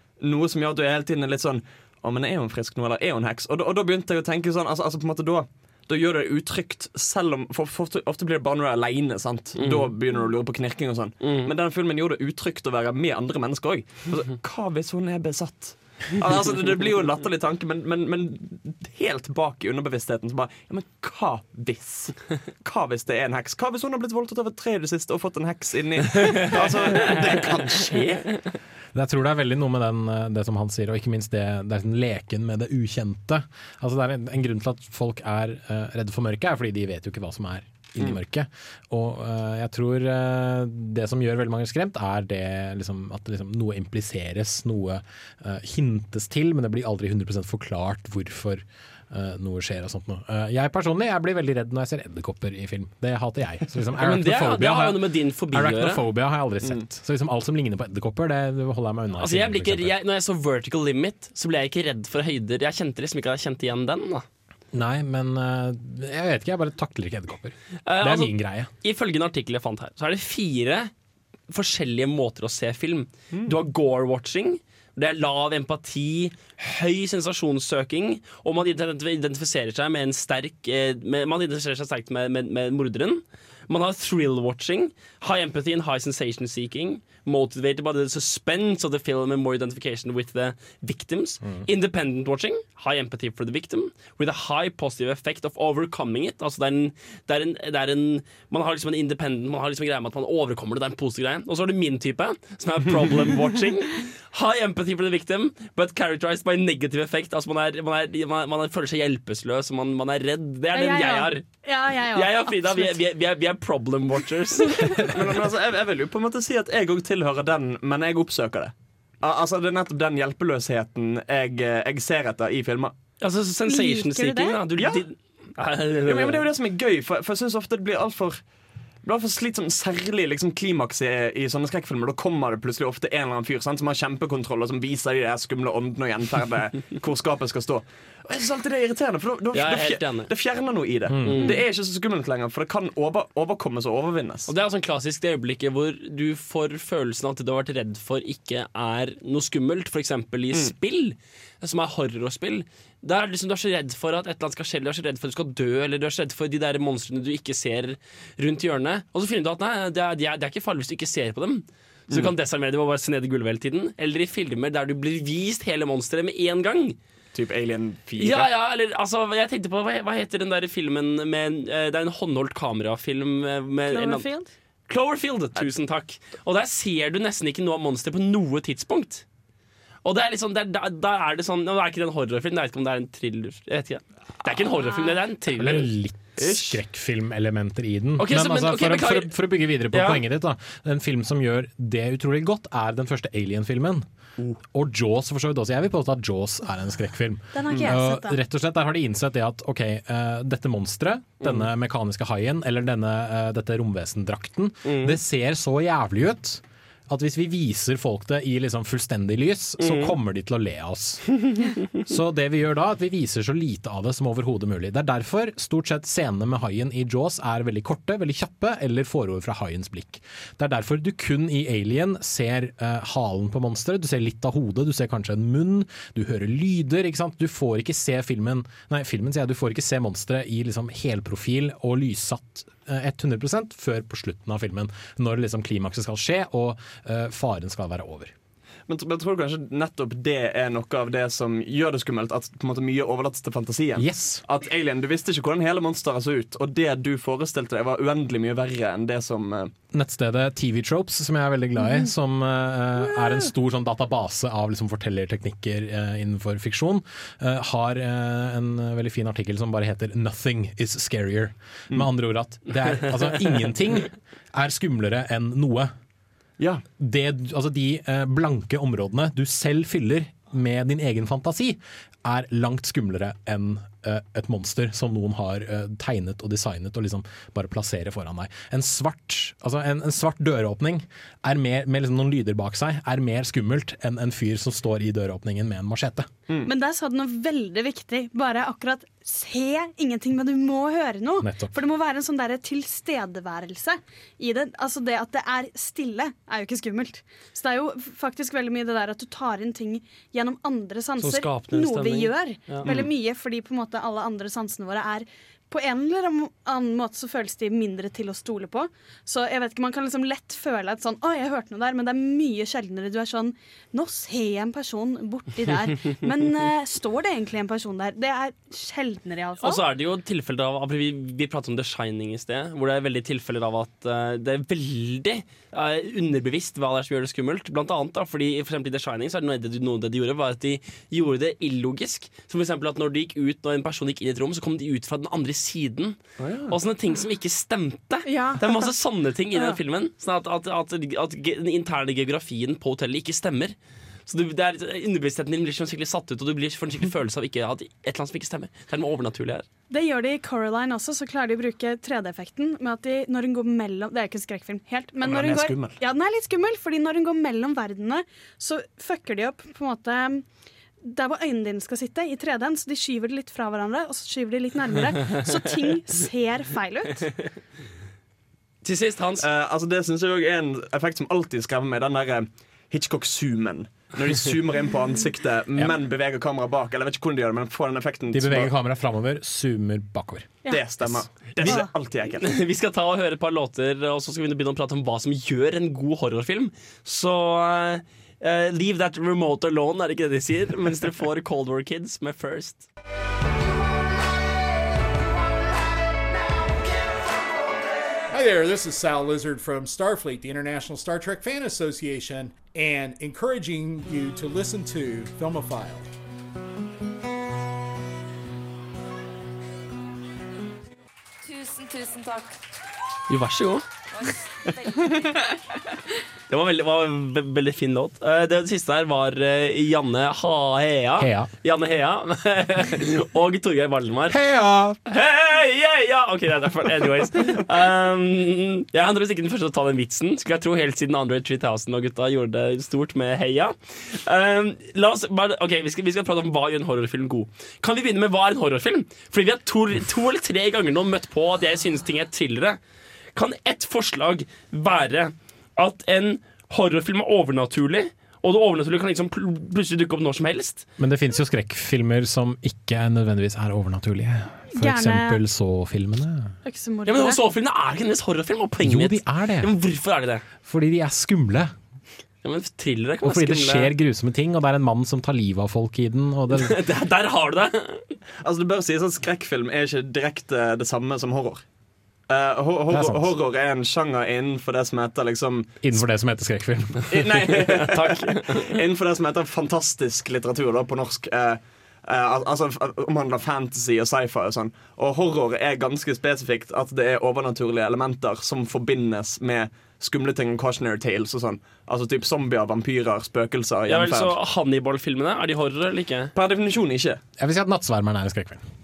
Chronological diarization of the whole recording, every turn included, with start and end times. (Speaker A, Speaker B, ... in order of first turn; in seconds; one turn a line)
Speaker A: 0.2-28.3
Speaker B: 9.6-9.9
Speaker B: 11.2-11.5
Speaker B: 26.6-27.8
Speaker C: 28.9-60.0
Speaker B: 54.0-56.0
Speaker B: 59.2-64.2
Speaker C: 64.7-68.7
Speaker B: 67.9-70.9
Speaker B: 71.5-111.5
Speaker D: 110.7-113.0
Speaker B: 112.1-115.1
Speaker A: 115.1-123.0
Speaker B: 123.2-126.5
Speaker D: 123.7-124.6
Speaker A: 124.8-125.0
Speaker A: 126.1-128.4
Speaker A: 129.0-144.5
Speaker B: 139.5-140.3
Speaker C: 141.1-141.5
Speaker B: 141.2-141.6
Speaker B: 144.5-167.0
Speaker A: 167.3-168.5
Speaker B: 168.2-174.3
Speaker D: 173.9-174.5
Speaker B: 174.9-179.2
Speaker B: 180.0-185.9
Speaker C: 185.5-194.1
Speaker A: 186.4-186.8
Speaker B: 188.2-189.3
Speaker B: 189.9-190.2
Speaker C: 194.7-211.2
Speaker D: 197.5-198.4
Speaker B: 201.4-201.7
Speaker B: 204.9-205.2
Speaker B: 209.8-210.2
Speaker C: 212.1-238.3
Speaker A: 238.9-249.7
Speaker C: 244.0-244.4
Speaker C: 249.9-265.9
Speaker A: 266.6-266.8
Speaker C: 267.0-286.3
Speaker D: 286.7-319.8
Speaker C: 291.4-291.8
Speaker B: 301.2-302.9
Speaker A: 302.8-303.1
Speaker B: 319.6-336.2
Speaker A: 336.4-336.8
Speaker B: 336.7-343.8
Speaker D: 338.3-338.9
Speaker B: 344.3-349.7
Speaker D: 349.9-360.4
Speaker A: 355.2-356.0
Speaker D: 361.0-367.3
Speaker B: 368.8-369.5
Speaker A: 369.4-378.7
Speaker C: 378.3-381.2
Speaker A: 380.7-382.6
Speaker D: 381.6-381.9
Speaker B: 382.4-392.9
Speaker E: 398.3-406.1
Speaker F: 411.4-412.6
Speaker B: 413.3-413.9
Speaker F: 414.1-415.5
Speaker B: 416.5-424.4
Speaker C: 421.2-421.5
Speaker C: 424.3-425.0
Speaker B: 425.1-442.8
Speaker B: 443.3-450.9
Speaker C: 451.0-456.5
Speaker D: 454.8-455.4
Speaker D: 456.6-457.4
Speaker B: 457.1-460.4
Speaker C: 458.8-459.7
Speaker C: 460.6-461.7
Speaker B: 462.4-463.9
Speaker C: 463.2-466.8
Speaker B: 466.5-468.1
Speaker A: 468.4-471.6
Speaker A: 472.3-476.0
Speaker C: 472.9-473.3
Speaker C: 475.8-477.3
Speaker A: 477.1-494.4
Speaker B: 477.7-478.7
Speaker B: 493.9-496.3
Speaker A: 496.4-497.2
Speaker C: 497.4-498.6